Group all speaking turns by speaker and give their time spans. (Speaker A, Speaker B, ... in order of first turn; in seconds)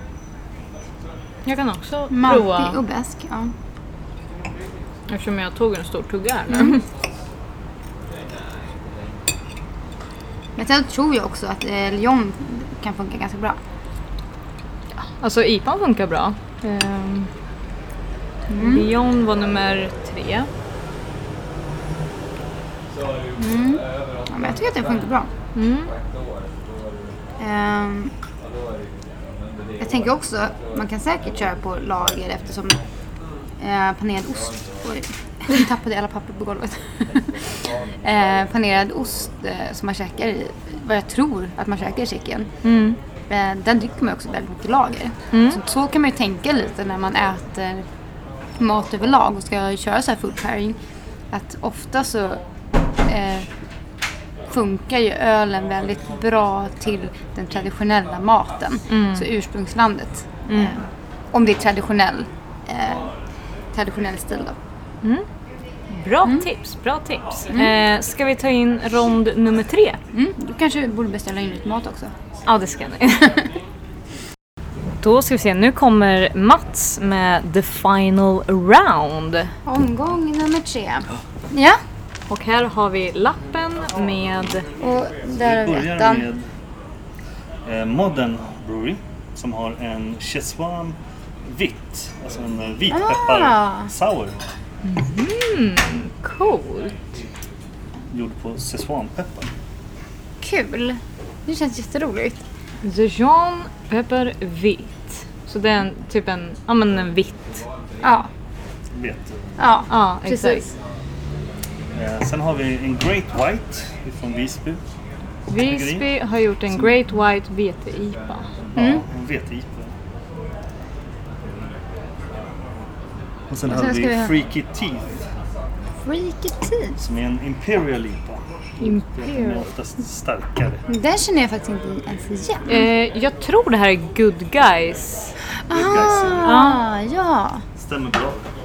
Speaker A: 1.5-2.8, 5.1-6.8, 15.0-17.3, 18.6-20.5, 25.6-25.9, 42.6-43.0, 45.3-45.6, 58.9-59.3, 60.5-60.8, 65.9-70.0, 72.5-73.4, 75.0-79.5, 82.3-84.7, 94.8-97.0, 102.8-107.6, 109.9-110.6, 115.5-118.5, 128.8-129.6, 132.7-135.3, 136.4-136.8
Speaker B: 2.1-3.5, 6.5-6.8, 10.6-13.6, 18.5-18.9, 23.4-25.3, 27.4-28.1, 29.8-32.8, 33.6-42.5, 43.3-47.8, 48.6-50.8, 51.3-52.4, 53.0-53.5, 54.5-60.8, 61.3-63.1, 63.7-64.6, 70.1-72.1, 79.7-81.8, 84.8-86.2, 92.9-93.9, 100.4-102.4, 108.0-108.3, 109.6-110.7, 118.8-119.0, 123.7-124.3, 126.0-127.0, 130.9-132.9, 135.7-137.7
Speaker C: 85.4-86.5, 87.7-94.4, 98.1-99.5, 108.9-109.5, 111.9-114.8, 115.6-116.1, 118.7-119.9, 123.5-125.2, 127.0-130.8, 135.7-136.6, 137.8-138.4